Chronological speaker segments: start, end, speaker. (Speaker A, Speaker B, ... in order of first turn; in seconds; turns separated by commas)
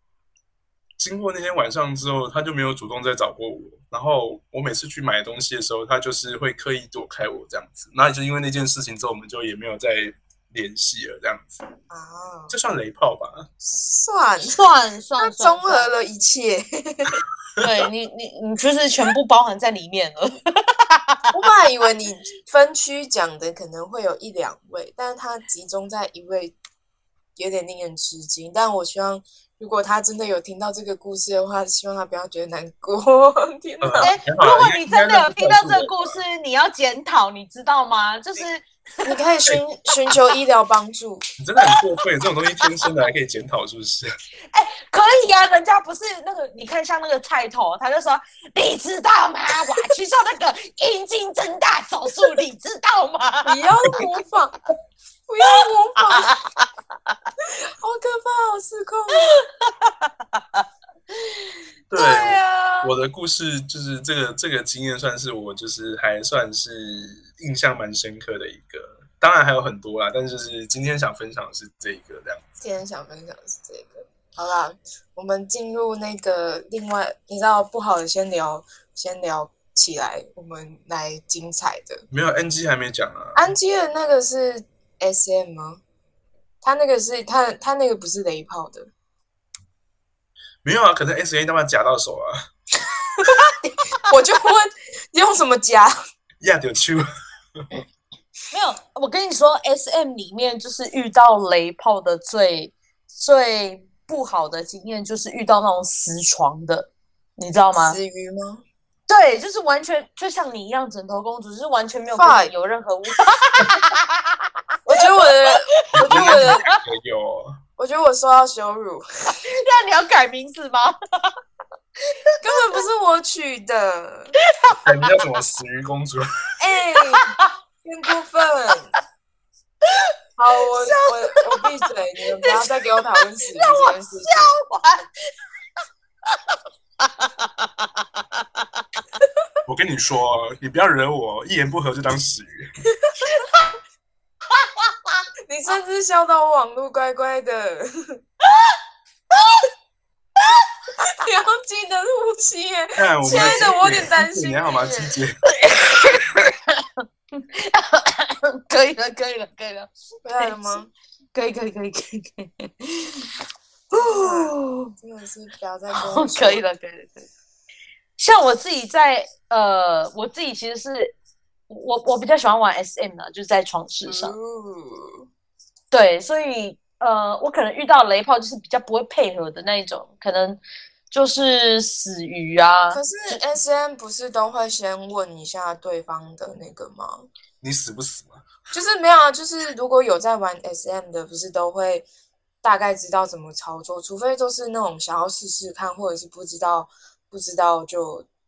Speaker A: 1.0-11.6, Speaker B: 11.9-12.5, Speaker A: 12.5-13.5, Speaker B: 13.6-14.6, Speaker C: 14.4-15.9, Speaker B: 15.2-17.2, Speaker C: 17.6-21.2, Speaker B: 21.3-26.6, Speaker B: 27.4-34.1, Speaker A: 33.8-36.2, Speaker C: 34.0-39.2, Speaker B: 39.0-41.2, Speaker A: 41.4-44.1, Speaker C: 44.5-53.6, Speaker B: 53.4-54.5, Speaker B: 55.3-56.3, Speaker C: 56.1-56.6, Speaker B: 57.8-59.4, Speaker C: 59.2-60.6, Speaker A: 61.9-72.4, Speaker C: 62.0-62.9, Speaker B: 72.6-82.0, Speaker A: 82.1-83.5, Speaker B: 83.3-85.8, Speaker B: 86.6-88.9, Speaker A: 90.6-92.5, Speaker B: 94.1-95.9, Speaker A: 96.4-97.0, Speaker C: 98.5-108.0, Speaker B: 107.7-108.6, Speaker C: 109.1-114.3, Speaker B: 112.1-112.5, Speaker B: 114.8-116.6, Speaker C: 115.0-116.8, Speaker A: 116.0-117.6, Speaker B: 117.8-119.4, Speaker C: 119.4-121.2, Speaker B: 122.4-124.3, Speaker C: 124.5-124.9, Speaker A: 124.8-126.2, Speaker B: 126.6-128.9, Speaker C: 127.1-127.5, Speaker B: 130.4-134.5, Speaker C: 130.7-131.7, Speaker C: 132.3-135.1, Speaker C: 137.0-139.0, Speaker A: 139.6-142.7, Speaker C: 143.4-143.7, Speaker C: 144.5-145.2, Speaker B: 145.5-148.2, Speaker C: 149.3-149.7, Speaker B: 151.2-155.2, Speaker A: 153.0-155.4, Speaker C: 153.3-153.6, Speaker C: 155.6-160.6, Speaker B: 160.2-160.9, Speaker C: 161.3-163.3, Speaker C: 163.9-164.9, Speaker B: 163.9-166.6, Speaker C: 165.9-167.3, Speaker C: 168.2-171.1, Speaker C: 171.7-174.3, Speaker B: 174.1-175.3, Speaker C: 175.9-180.6, Speaker C: 181.1-183.4, Speaker B: 182.9-187.3, Speaker A: 187.6-188.4, Speaker B: 188.7-192.1, Speaker B: 192.6-198.3